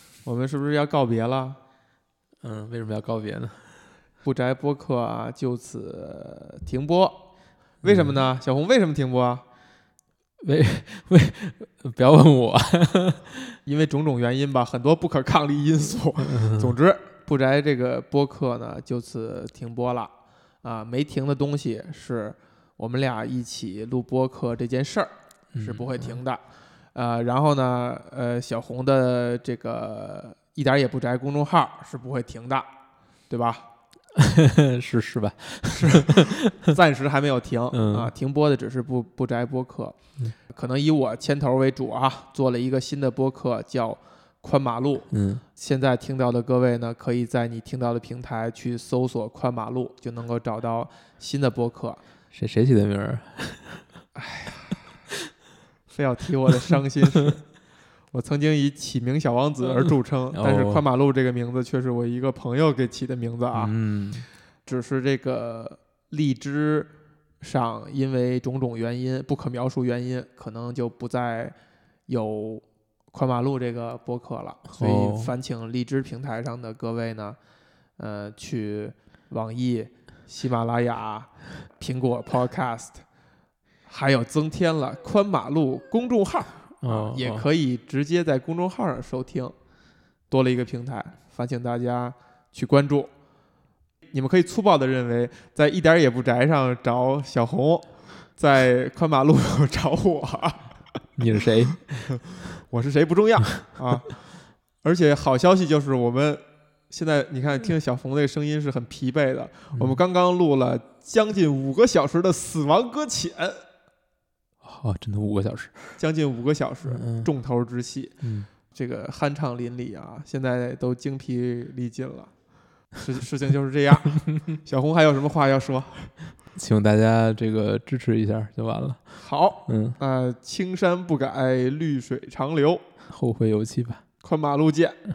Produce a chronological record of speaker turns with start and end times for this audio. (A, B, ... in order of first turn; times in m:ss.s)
0:00.2-0:01.6 A
0:02.4-0:03.7 B
0:04.2-0:07.2 A
0:07.8-0:09.4 A
0:07.8-0:08.2 B
0:10.4-0:13.6 B
0:13.6-0:20.1 A
0:16.2-0:16.7 B
0:20.6-0:26.4 A
0:25.5-0:26.2 B
0:26.9-0:32.7 A
0:33.3-0:33.6 A
0:34.1-0:36.7 B
0:35.8-0:52.0 A
0:37.7-0:38.1 B
0:45.1-0:45.4 B
0:52.3-0:53.8 B
0:54.1-0:54.8 A
0:55.9-0:57.4 A
0:58.1-1:03.7 A
1:00.3-1:00.8 B
1:03.5-1:04.2 B
1:04.6-1:11.6 A
1:12.1-1:17.4 A
1:14.7-1:15.3 B
1:18.0-1:23.0 A
1:23.8-1:29.5 A
1:26.8-1:27.4 B
1:30.3-1:33.1 A
1:34.1-1:40.8 A
1:41.2-1:42.1 B
1:42.7-1:44.2 A
1:44.8-1:53.6 A
1:49.7-1:50.0 B
1:54.6-1:56.0 B
1:56.0-1:58.2 A
1:56.9-1:57.3 B
1:58.2-1:58.5 B
1:58.7-2:02.3 A
2:02.9-2:06.1 A
2:06.5-2:09.0 B
2:09.2-2:12.8 A
2:09.6-2:10.0 B
2:13.1-2:14.0 B
2:14.2-2:15.0 A